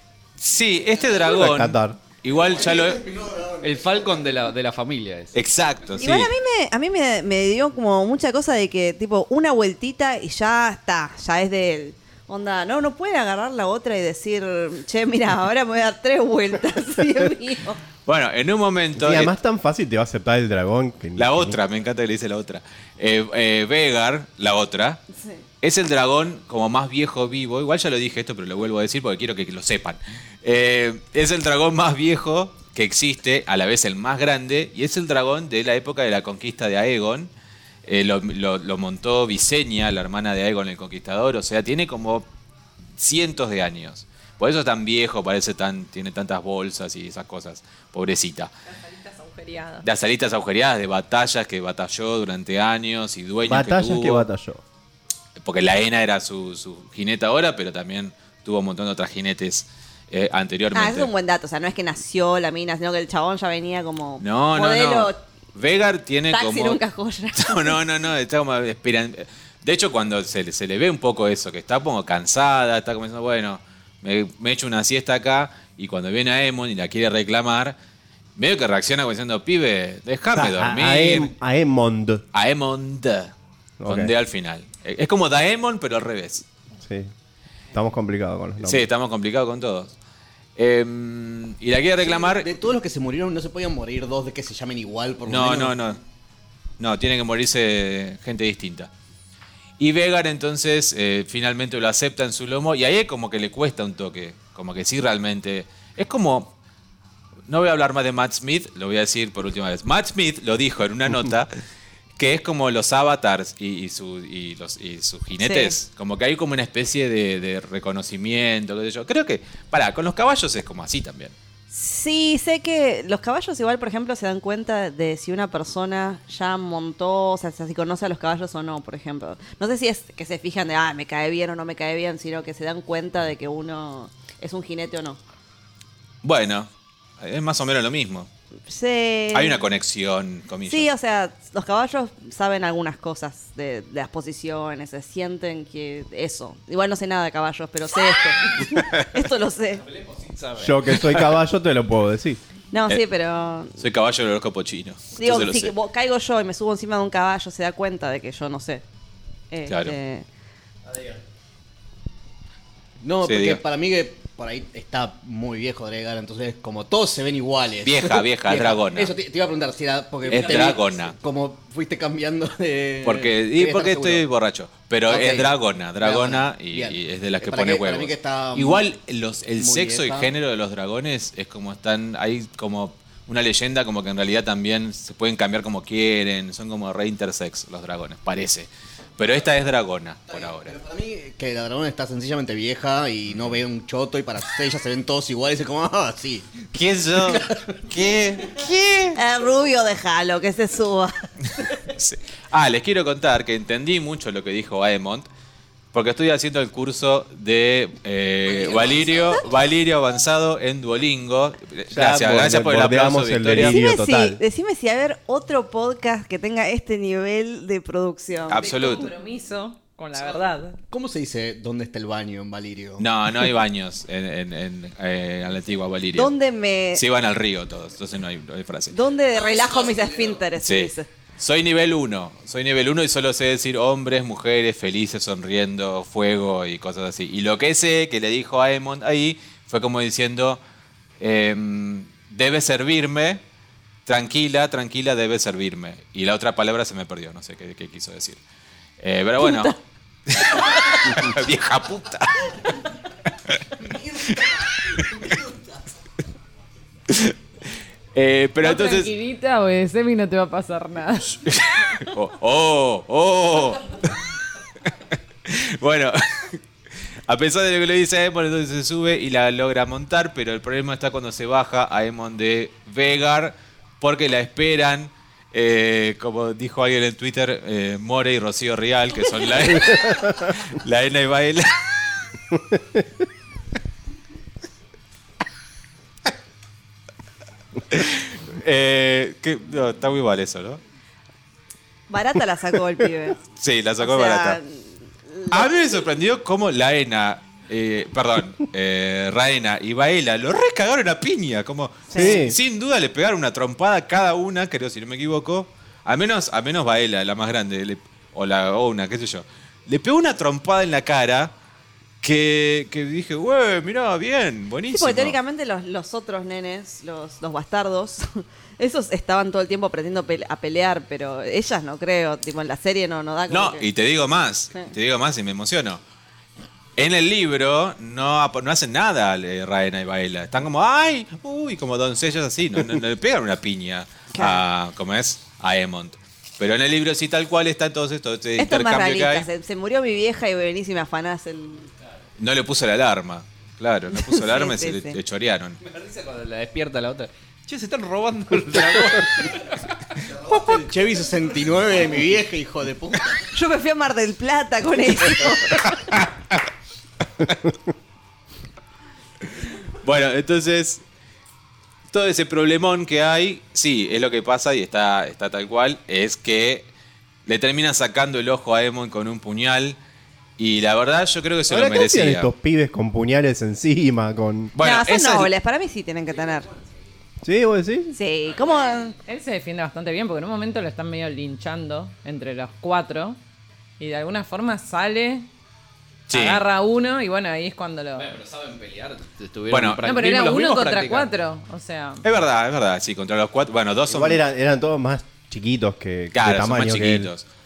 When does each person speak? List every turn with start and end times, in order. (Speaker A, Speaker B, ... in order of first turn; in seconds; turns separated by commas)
Speaker A: 0.4-3.0, Speaker B: 1.3-2.0, Speaker C: 2.3-4.3, Speaker D: 3.6-5.4, Speaker A: 5.3-6.3, Speaker E: 6.0-17.8, Speaker A: 18.1-19.3, Speaker B: 18.9-21.6, Speaker A: 21.1-25.0, Speaker E: 25.1-25.4, Speaker A: 25.6-37.3, Speaker A: 37.9-42.2, Speaker A: 43.0-48.5, Speaker F: 48.7-49.9, Speaker A: 49.8-54.2, Speaker B: 53.4-54.6, Speaker A: 55.4-61.1, Speaker E: 60.7-65.2, Speaker A: 64.2-66.8, Speaker E: 66.3-67.8, Speaker A: 67.3-77.8, Speaker A: 78.3-81.3, Speaker B: 80.3-82.2, Speaker A: 82.3-83.3, Speaker B: 83.8-84.1, Speaker A: 83.8-86.5, Speaker B: 86.8-87.1, Speaker B: 87.7-88.9, Speaker A: 88.6-89.9, Speaker A: 90.6-92.5, Speaker C: 92.0-95.8, Speaker A: 95.3-96.0, Speaker A: 96.8-98.9, Speaker A: 99.8-106.5, Speaker A: 107.5-111.5, Speaker A: 112.2-121.3, Speaker E: 115.4-115.7, Speaker E: 121.7-135.2, Speaker A: 136.2-136.7, Speaker A: 137.2-138.3, Speaker E: 138.7-139.6, Speaker A: 139.3-140.9, Speaker E: 140.7-149.8, Speaker D: 149.8-151.0, Speaker B: 150.6-152.4, Speaker E: 152.7-153.8, Speaker A: 153.8-155.7, Speaker E: 155.2-158.8, Speaker E: 159.5-160.2, Speaker A: 159.7-159.9, Speaker C: 163.0-174.2, Speaker A: 163.2-163.6, Speaker A: 167.8-169.1, Speaker A: 170.2-171.1, Speaker A: 173.0-190.7, Speaker C: 175.1-178.8, Speaker C: 179.6-180.3, Speaker C: 190.3-196.6, Speaker A: 193.2-193.6, Speaker A: 196.7-199.2, Speaker C: 197.1-197.8, Speaker E: 199.1-201.1, Speaker A: 201.9-205.3, Speaker A: 205.9-213.7, Speaker C: 208.4-209.4, Speaker B: 211.9-214.4, Speaker E: 213.6-218.7, Speaker A: 218.5-219.1, Speaker F: 218.5-220.8, Speaker C: 220.2-223.1, Speaker A: 223.0-226.3, Speaker E: 226.1-227.0, Speaker A: 226.9-228.9, Speaker E: 228.9-231.1, Speaker C: 229.3-230.4, Speaker A: 230.6-240.6, Speaker A: 241.2-243.4, Speaker A: 244.1-248.4, Speaker A: 249.0-249.7, Speaker E: 249.4-249.7, Speaker A: 250.3-252.8, Speaker C: 253.8-255.8, Speaker A: 257.1-257.3, Speaker A: 258.1-259.1, Speaker F: 258.6-261.4, Speaker A: 261.4-264.1, Speaker A: 265.1-266.6, Speaker A: 267.3-281.8, Speaker A: 287.9-290.8, Speaker E: 292.1-293.4, Speaker A: 293.6-294.6, Speaker E: 294.0-295.7, Speaker A: 295.5-311.5, Speaker E: 302.1-302.4, Speaker B: 302.1-302.6, Speaker A: 312.2-315.4, Speaker E: 314.9-323.9, Speaker A: 323.5-326.0, Speaker A: 327.0-339.4, Speaker E: 334.3-334.6, Speaker E: 338.6-341.9, Speaker A: 342.4-345.8, Speaker E: 344.1-345.2, Speaker D: 345.8-349.8, Speaker C: 350.2-353.4, Speaker E: 353.5-355.8, Speaker A: 360.0-361.0, Speaker A: 362.1-366.9, Speaker A: 367.4-370.0, Speaker A: 370.6-372.5, Speaker B: 371.7-374.7, Speaker A: 374.7-375.5, Speaker E: 374.8-376.7, Speaker B: 377.4-378.1, Speaker E: 378.1-379.1, Speaker F: 379.2-383.4, Speaker F: 384.0-385.5, Speaker A: 386.3-386.6, Speaker F: 386.3-388.3, Speaker D: 388.1-391.3, Speaker A: 389.7-390.1, Speaker F: 390.0-392.2, Speaker A: 392.2-394.4, Speaker B: 394.1-397.3, Speaker A: 396.3-397.4